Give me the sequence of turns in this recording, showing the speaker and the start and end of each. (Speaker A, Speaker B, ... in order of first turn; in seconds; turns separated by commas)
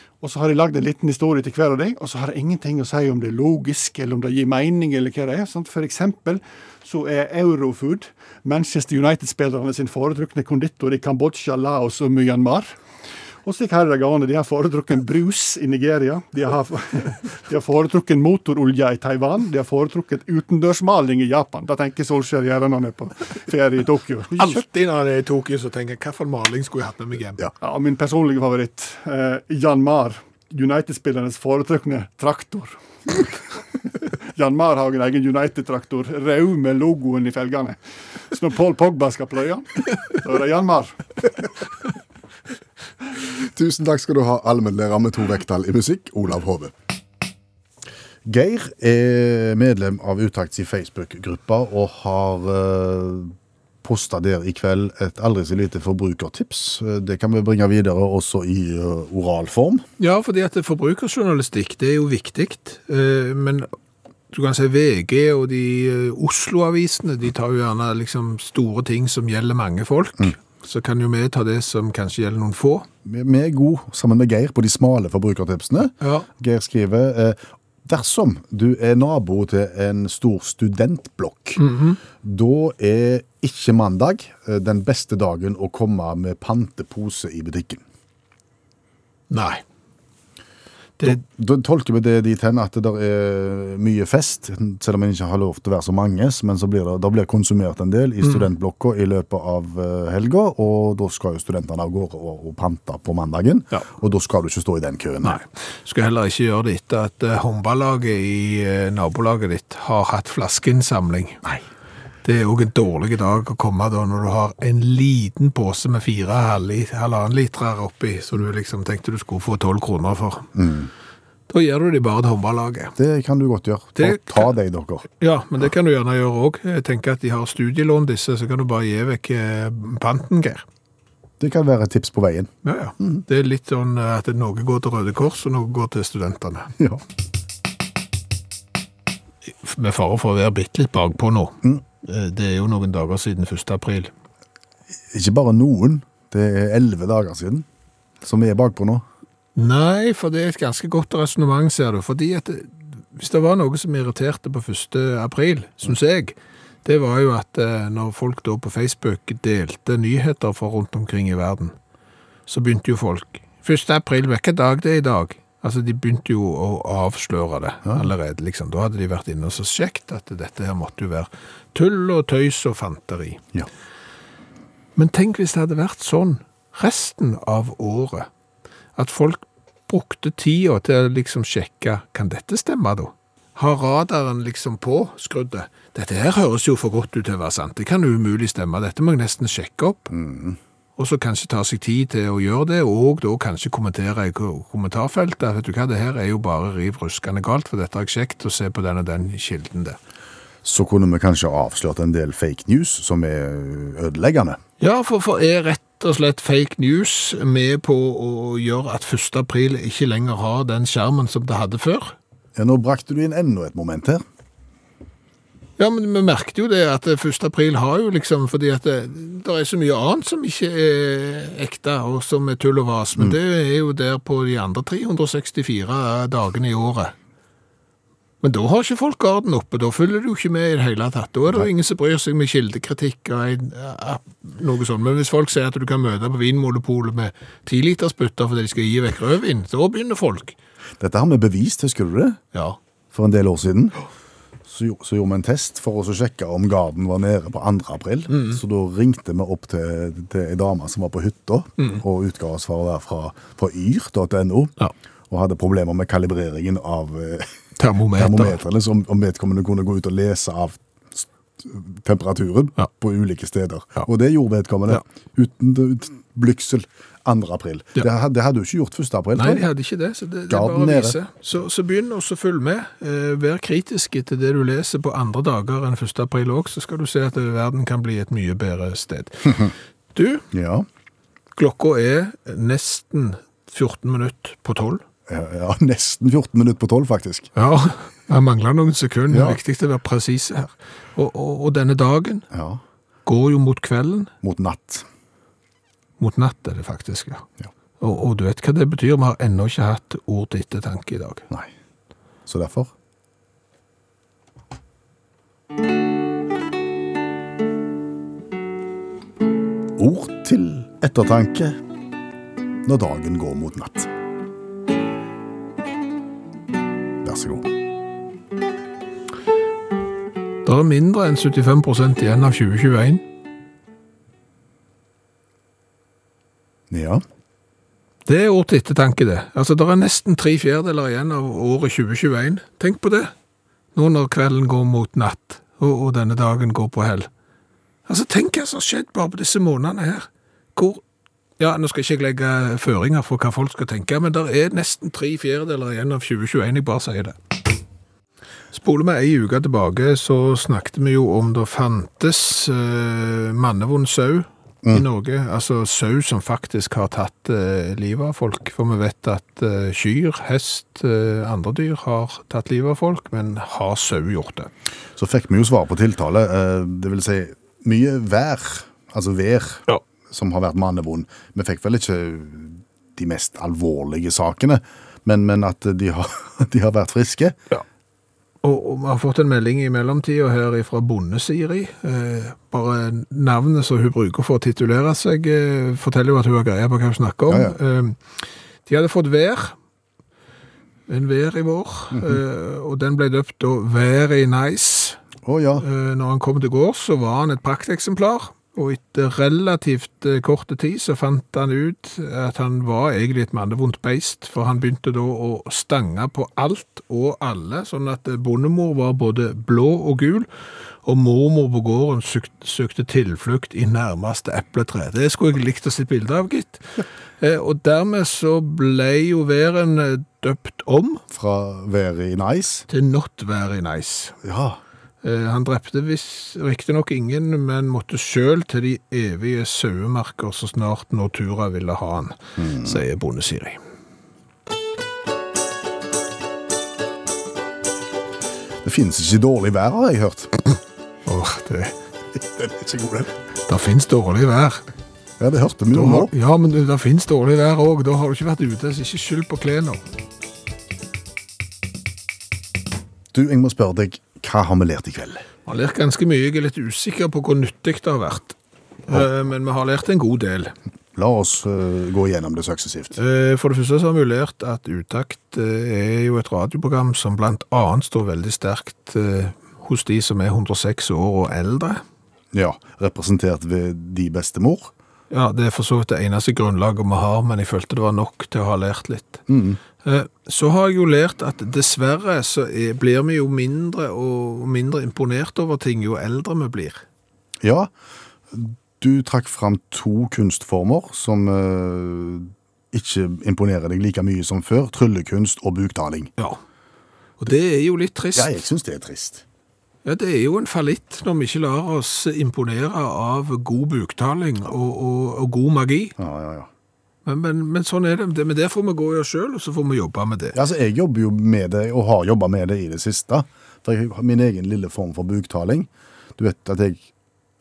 Speaker A: 0.2-12.7, Speaker A: 13.4-24.6, Speaker B: 24.4-27.4, Speaker A: 27.6-33.3, Speaker A: 34.3-37.8, Speaker A: 38.3-41.0, Speaker C: 43.3-46.7, Speaker C: 48.2-59.8, Speaker B: 60.0-63.7, Speaker B: 64.3-72.9, Speaker C: 73.0-81.6, Speaker B: 76.0-76.3, Speaker B: 81.6-82.0, Speaker C: 82.2-87.8, Speaker B: 89.3-89.6, Speaker C: 91.0-105.4, Speaker B: 105.2-111.5, Speaker B: 112.2-120.5, Speaker C: 120.5-120.9, Speaker B: 121.5-123.0, Speaker C: 123.0-125.1, Speaker B: 124.0-124.5, Speaker B: 125.2-130.6, Speaker C: 131.4-133.2, Speaker B: 132.6-136.7, Speaker B: 139.5-144.1, Speaker C: 145.1-147.7, Speaker C: 148.2-149.0, Speaker B: 149.6-161.7, Speaker B: 162.5-173.4, Speaker B: 174.9-178.3, Speaker B: 178.9-190.1, Speaker C: 190.1-190.6, Speaker B: 191.0-200.0, Speaker C: 200.6-204.6, Speaker B: 204.8-212.1, Speaker C: 212.6-214.2, Speaker B: 215.8-227.1, Speaker B: 228.4-240.6, Speaker C: 241.0-242.4, Speaker C: 243.1-244.0, Speaker C: 244.7-254.7, Speaker B: 248.3-248.6, Speaker C: 255.3-257.5, Speaker B: 257.8-258.6, Speaker C: 258.1-269.6, Speaker B: 269.4-280.4, Speaker C: 270.5-271.2, Speaker C: 280.5-280.9, Speaker B: 281.6-285.0, Speaker C: 285.3-287.5, Speaker B: 287.6-292.5, Speaker C: 289.3-289.6, Speaker C: 292.5-292.8, Speaker B: 293.2-294.3, Speaker C: 294.4-295.1, Speaker B: 296.2-297.4, Speaker B: 298.0-301.4, Speaker C: 302.4-302.9, Speaker C: 309.9-311.8, Speaker C: 312.8-314.1, Speaker C: 317.2-317.7, Speaker B: 320.6-323.2, Speaker C: 326.9-327.2, Speaker B: 328.2-333.3, Speaker B: 333.9-337.3, Speaker B: 338.1-341.0, Speaker B: 341.6-347.4, Speaker B: 348.7-364.7, Speaker C: 365.2-377.6, Speaker B: 378.6-388.2, Speaker C: 387.5-387.8, Speaker B: 388.9-389.7, Speaker B: 391.1-395.2, Speaker C: 395.4-395.8, Speaker B: 395.8-410.5, Speaker B: 411.0-421.2, Speaker C: 421.3-422.9, Speaker B: 422.9-424.4, Speaker C: 424.4-424.8, Speaker B: 425.2-433.8, Speaker C: 432.6-433.0, Speaker C: 438.8-440.5, Speaker B: 441.2-441.9, Speaker C: 442.4-443.3, Speaker B: 443.7-444.8, Speaker C: 445.4-446.3, Speaker B: 445.9-450.0, Speaker C: 453.3-455.4, Speaker B: 455.6-460.7, Speaker C: 461.1-463.2, Speaker B: 463.2-472.0, Speaker C: 472.5-474.9, Speaker B: 475.3-479.4, Speaker C: 479.5-479.8, Speaker B: 480.0-487.0, Speaker C: 487.6-487.9, Speaker C: 488.5-496.3, Speaker B: 497.4-498.5, Speaker C: 498.3-499.4, Speaker B: 500.0-506.1, Speaker C: 506.2-506.7, Speaker B: 507.2-510.6, Speaker C: 510.5-517.1